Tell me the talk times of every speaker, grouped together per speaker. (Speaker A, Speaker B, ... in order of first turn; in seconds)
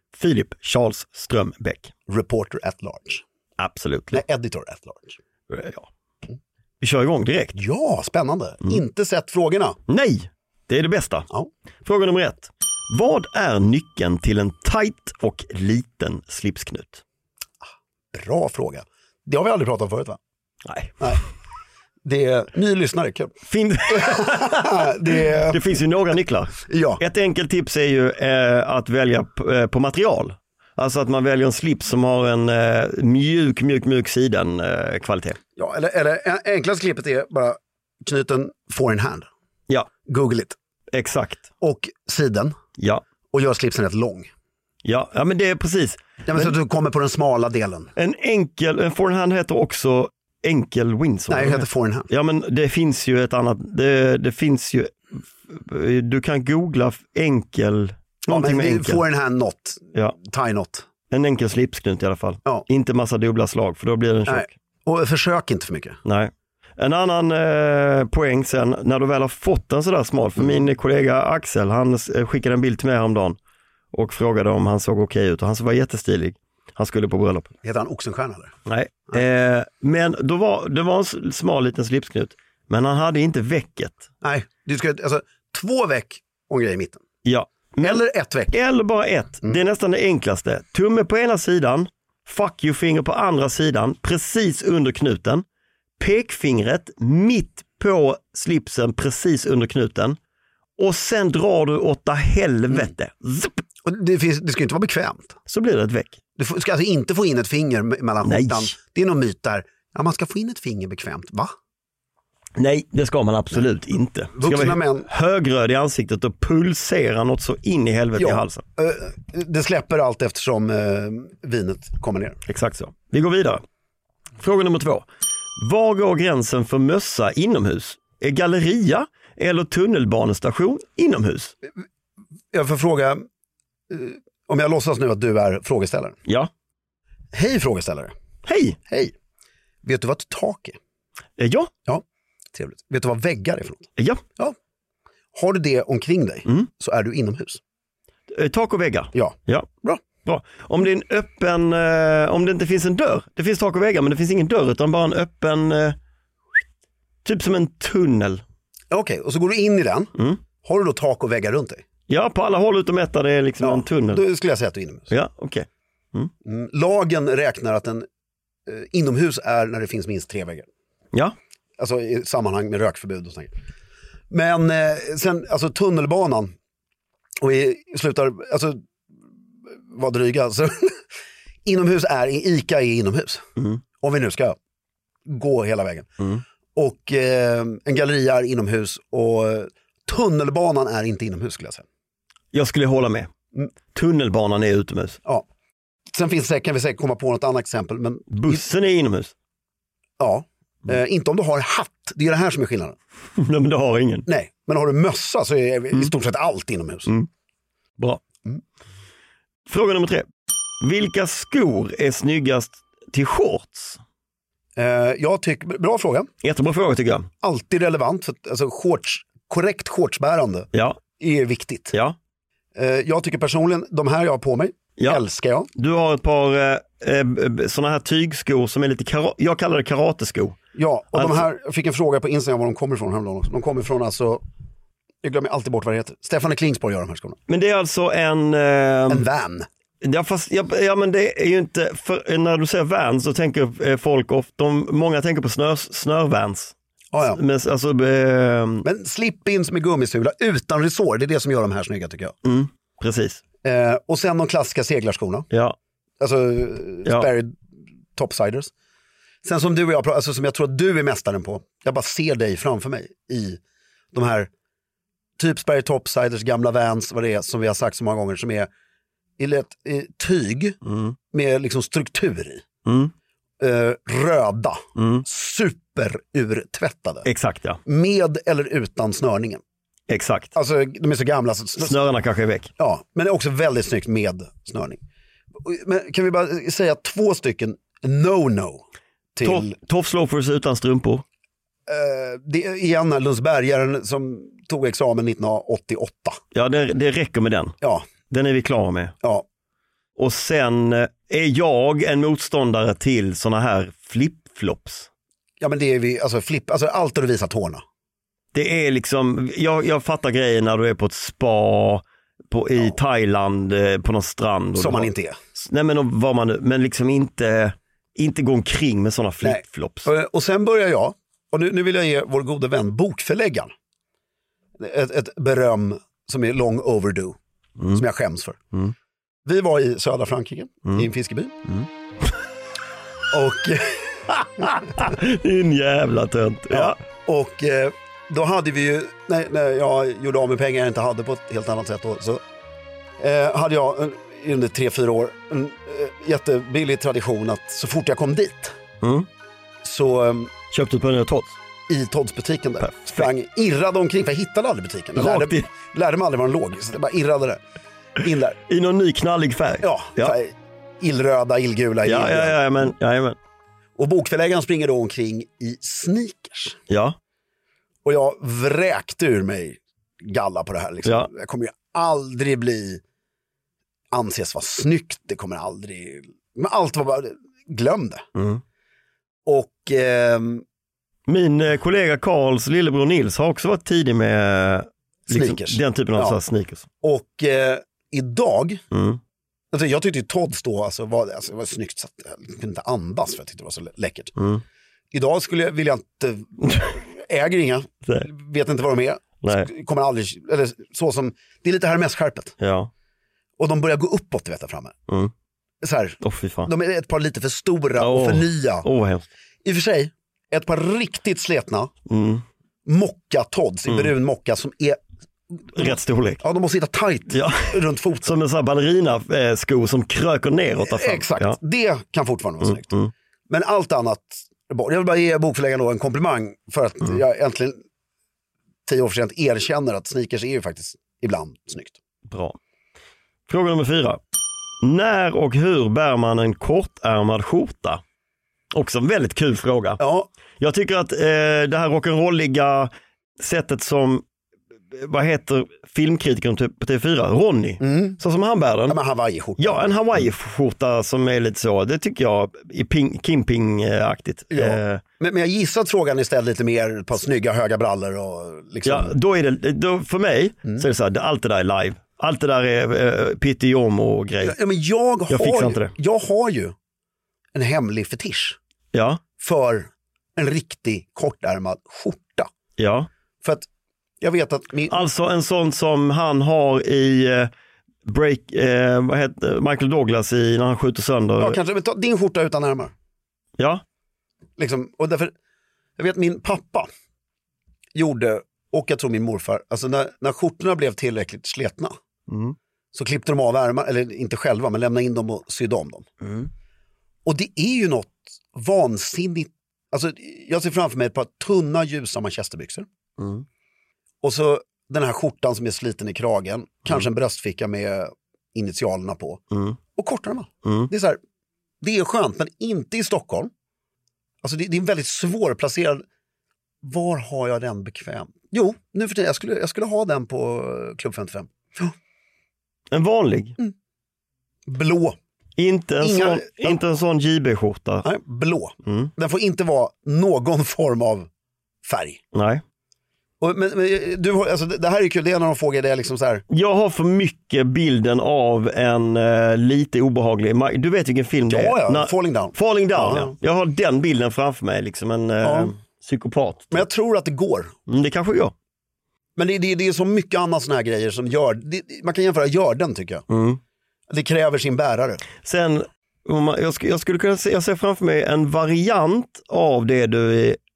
Speaker A: 0.1-1.9, 3.6-4.2, 5.5-5.9, 6.8-7.6, 9.9-11.3, 11.8-17.0, 20.6-21.2, 23.4-35.4, 40.9-41.4, 42.8-43.0, 44.8-46.5, 48.0-59.0, 61.1-64.5, 66.0-73.4, 73.9-77.5, 78.7-84.0, 87.2-88.0, 88.5-95.4, 96.0-100.2, 100.8-103.6, 105.5-106.2, 108.2-108.7, 112.5-118.6, 122.5-123.6, 124.4-125.0, 125.6-131.5, 138.4-138.8, 141.4-141.7, 143.9-144.2, 148.3-149.7, 150.2-155.9, 157.2-158.4, 160.2-160.4, 162.1-164.2, 165.1-166.3, 192.5-193.3, 193.9-195.2, 198.3-199.3, 203.3-204.3, 209.7-210.3, 210.8-214.0, 216.4-217.3, 220.7-221.0, 221.9-222.2, 225.7-230.6, 231.1-231.4, 237.5-239.2, 240.0-248.8, 252.4-253.4, 255.5-255.8, 270.8-271.1, 272.8-273.1, 274.9-275.2, 277.2-277.8, 280.1-280.5, 281.8-282.7, 289.4-291.2, 296.5-297.8, 298.3-299.1, 300.1-305.1, 308.5-320.1, 334.3-337.0, 349.0-349.3, 350.7-351.6, 352.8-353.3, 355.1-355.7, 358.7-360.3, 362.0-363.4, 366.9-367.2, 371.0-371.3, 378.3-378.6, 381.3-386.9, 388.9-389.2, 394.4-394.6, 399.4-399.7, 402.6-402.9, 406.2-406.7, 408.0-409.2, 412.1-412.4, 413.9-414.1, 415.7-416.4, 417.3-421.6, 422.6-423.1, 432.3-432.6, 433.5-434.2, 434.8-438.0, 438.7-440.0, 440.6-444.2, 444.9-449.0, 449.6-455.0, 458.8-464.6, 465.3-465.9, 468.9-469.2, 472.8-473.1, 474.9-477.5, 478.0-481.6, 483.6-483.8, 492.3-492.6, 496.2-496.5, 503.2-503.4, 509.5-509.8, 510.6-510.9, 522.9-523.6, 525.6-528.1, 528.8-529.1, 532.3-532.6, 536.5-546.9, 547.9-548.5, 553.3-553.6, 555.4-560.6
Speaker B: 2.1-3.2, 4.1-5.2, 7.5-9.8, 18.1-20.2, 22.0-23.3, 23.9-25.6, 26.6-27.0, 35.5-39.3, 40.1-40.5, 41.6-42.5, 43.3-44.3, 46.3-47.9, 51.3-52.1, 58.3-60.9, 64.3-66.0, 70.4-70.6, 77.6-78.5, 84.2-87.0, 87.8-88.6, 103.8-105.3, 106.4-111.5, 114.3-115.1, 118.2-122.3, 132.5-133.2, 133.9-136.2, 137.3-138.1, 138.9-139.1, 139.8-140.8, 142.5-144.5, 145.3-147.6, 149.1-150.0, 158.9-161.8, 163.6-165.1, 166.4-168.0, 168.7-170.7, 171.8-173.5, 174.3-176.5, 177.4-178.8, 179.9-180.9, 181.6-183.4, 184.0-184.6, 185.3-186.1, 186.7-191.8, 196.1-198.7, 200.2-202.9, 204.2-207.1, 214.8-216.3, 217.4-221.9, 222.7-225.7, 230.7-234.4, 235.2-237.4, 239.1-239.7, 247.1-247.4, 248.8-252.3, 253.6-255.5, 256.2-257.5, 258.1-258.7, 259.4-263.6, 264.1-264.5, 265.4-268.7, 269.4-270.8, 271.3-272.6, 273.6-277.2, 277.9-279.6, 280.5-282.0, 282.8-285.0, 285.6-288.8, 289.4-289.7, 291.9-296.4, 297.8-298.1, 305.6-307.8, 314.7-315.4, 319.4-323.7, 324.8-327.4, 327.9-328.6, 329.4-331.5, 333.3-334.3, 336.7-342.4, 343.2-348.8, 349.8-350.5, 351.9-357.6, 358.2-358.6, 359.8-362.8, 364.0-366.8, 368.0-373.0, 374.1-378.2, 379.4-380.6, 385.3-386.4, 387.0-388.8, 389.7-394.3, 395.1-402.6, 403.6-404.9, 405.8-408.9, 409.6-411.9, 412.9-415.0, 415.6-418.4, 420.8-422.9, 423.5-427.8, 428.9-431.9, 440.0-440.3, 447.8-448.2, 448.9-450.3, 454.5-459.1, 464.4-466.7, 467.5-468.6, 469.4-472.5, 474.2-475.1, 481.4-482.9, 484.6-485.3, 486.0-486.9, 487.9-491.9, 492.9-496.1, 497.2-502.9, 504.2-509.4, 509.9-511.2, 511.8-513.5, 514.4-516.0, 516.8-521.9, 524.6-525.1, 526.0-526.8, 528.0-531.3, 531.8-532.2, 533.4-536.4, 541.4-543.3, 545.4-545.7, 546.7-547.7, 549.4-553.2, 554.1-555.2